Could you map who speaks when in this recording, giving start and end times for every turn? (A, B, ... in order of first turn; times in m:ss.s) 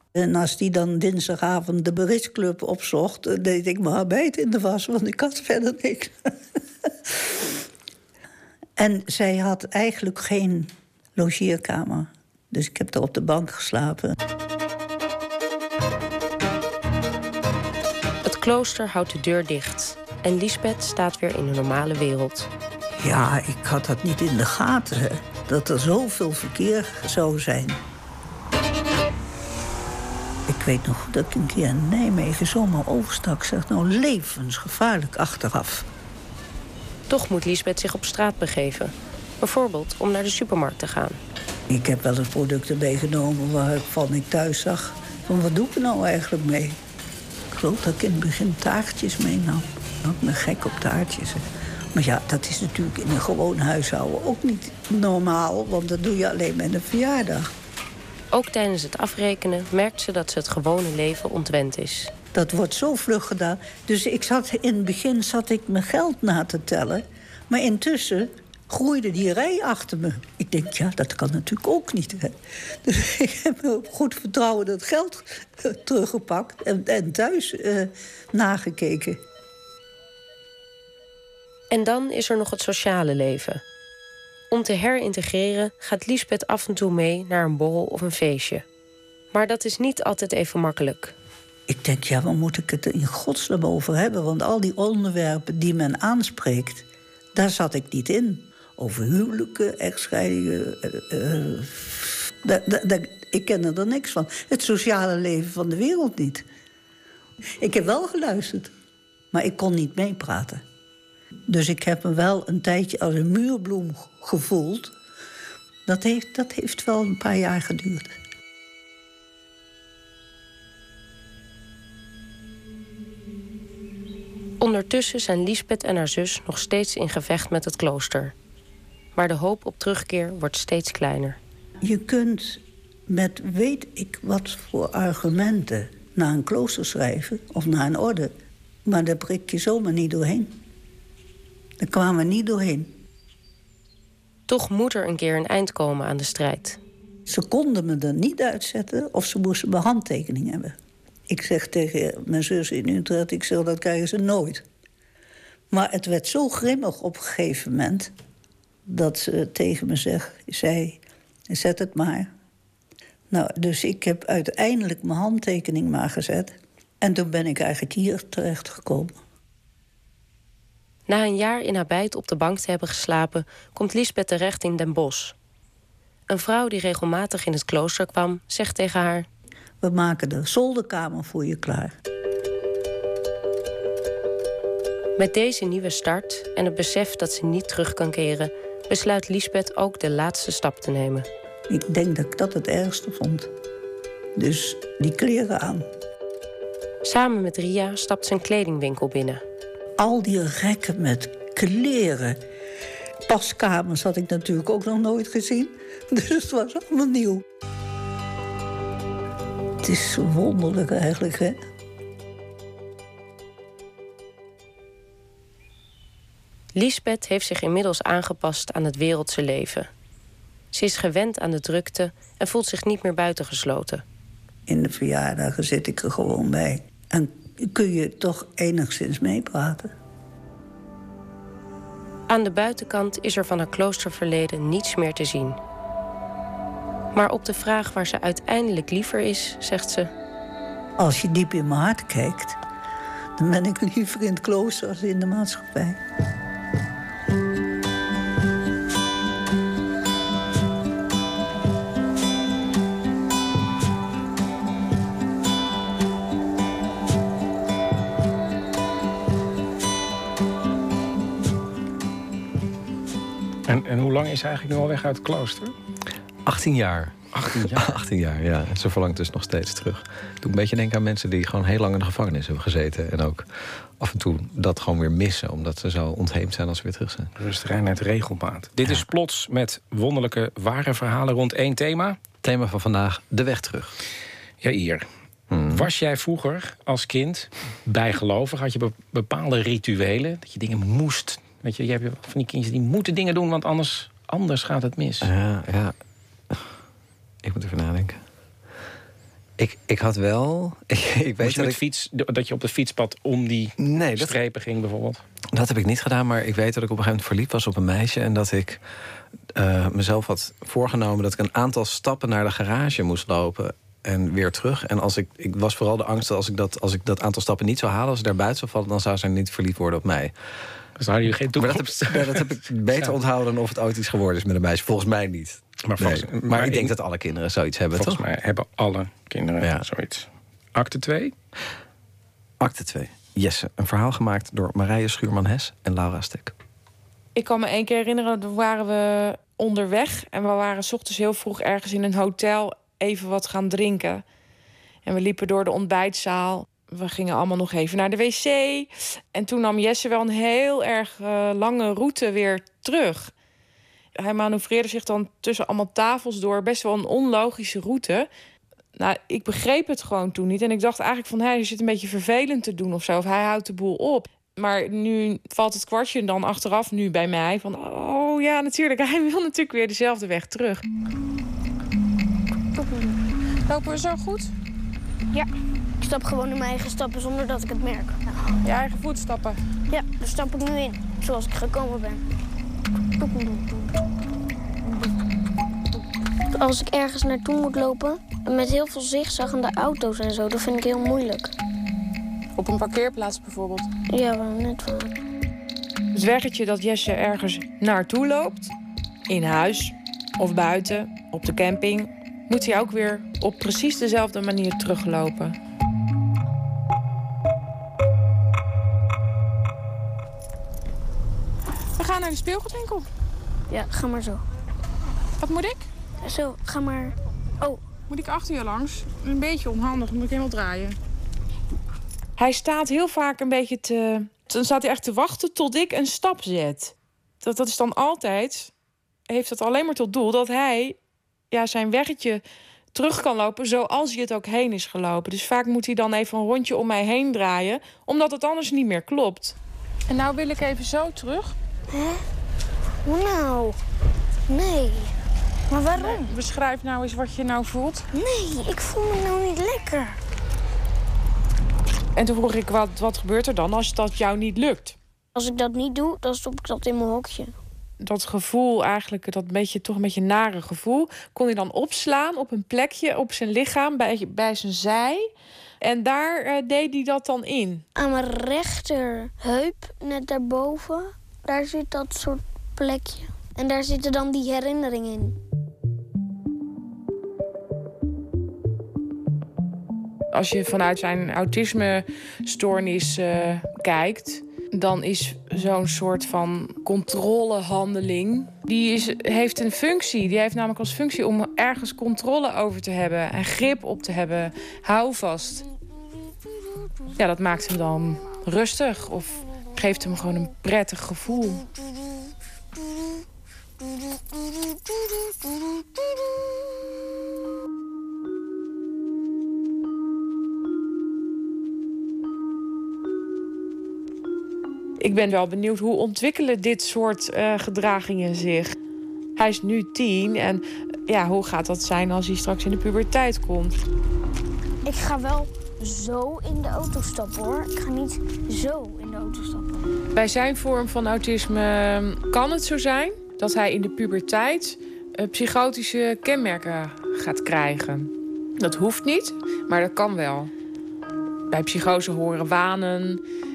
0:00.1-0:07.6 A
0:08.8-0:14.2 A
0:18.2-0:22.5 B
0:23.0-0:27.8 A
0:30.5-0:35.9 A
0:37.1-0:41.2 B
0:41.7-0:46.8 A
0:47.5-0:57.5 A
0:58.3-1:02.1 B
1:02.3-1:19.2 A
1:21.7-1:23.6 B
1:24.5-1:28.6 B
1:29.3-1:31.1 B
1:31.7-1:46.4 A
1:47.6-1:48.7 A
1:49.3-1:50.6 A
1:51.5-1:54.9 A
1:55.8-1:58.2 A
2:04.6-2:08.3 B
2:09.1-2:11.4 B
2:11.8-2:18.3 A
2:18.8-2:20.5 A
2:21.8-2:22.9 A
2:24.5-2:26.8 B
2:27.2-2:30.8 A
2:31.3-2:34.6 A
2:35.7-2:38.1 A
2:38.8-2:42.3 A
2:43.3-2:49.1 A
2:51.1-2:55.3 B
2:56.3-2:59.2 B
2:59.8-3:01.9 A
3:05.2-3:11.3 B
3:11.7-3:13.5 A
3:14.3-3:15.9 A
3:17.0-3:19.4 B
3:20.0-3:22.4 A
3:23.2-3:27.4 A
3:29.8-3:31.6 A
3:36.7-3:39.9 B
3:40.7-3:44.0 B
3:44.6-3:49.9 A
3:52.3-3:55.6 B
3:57.1-4:00.1 B
4:01.0-4:02.6 A
4:03.4-4:06.0 A
4:23.7-4:25.7 C
4:26.4-4:37.3 D
4:27.3-4:27.9 C
4:37.4-4:42.2 C
4:42.4-4:44.0 D
4:44.6-4:45.1 C
4:45.5-4:45.8 D
4:45.7-4:55.3 C
4:55.2-4:55.9 D
4:57.4-4:58.2 D
4:59.6-5:01.8 D
5:01.4-5:05.2 C
5:03.8-5:04.4 D
5:05.5-5:08.8 D
5:09.5-5:20.8 D
5:21.0-5:23.1 C
5:21.6-5:28.2 D
5:25.8-5:26.9 C
5:27.9-5:31.3 C
5:32.6-5:36.5 D
5:37.3-5:44.2 E
5:45.0-5:53.3 E
5:54.1-5:58.3 E
5:59.0-6:10.8 E
6:12.7-6:13.2 F
6:13.7-6:14.5 E
6:16.0-6:18.5 F
6:18.6-6:19.6 E
6:19.9-6:22.2 F
6:23.2-6:24.0 F
6:26.5-6:31.5 F
6:32.6-6:33.9 E
6:34.1-6:35.1 F
6:36.1-6:38.7 E
6:39.3-6:45.6 E
6:52.0-6:53.1 E
6:53.7-6:54.4 F
6:55.4-6:55.8 E
6:56.2-6:57.8 F
6:58.1-7:00.9 E
7:02.4-7:08.7 E
7:09.3-7:11.0 E
7:11.5-7:19.6 E
7:20.1-7:21.5 E
7:21.9-7:22.2 F
7:23.0-7:23.8 F
7:24.5-7:25.1 F
7:25.7-7:26.3 F
7:26.0-7:28.0 E
7:28.1-7:30.2 F
7:32.2-7:35.0 E
7:35.3-7:37.5 F
7:38.0-7:45.3 E
7:45.8-7:47.8 E
7:48.0-7:55.4 F
8:00.3-8:15.6 E
8:17.1-8:21.6 E
8:35.0-8:38.7 E
8:39.4-8:43.8 E
8:44.8-8:49.9 F
8:50.1-9:00.5 E
9:01.5-9:03.2 E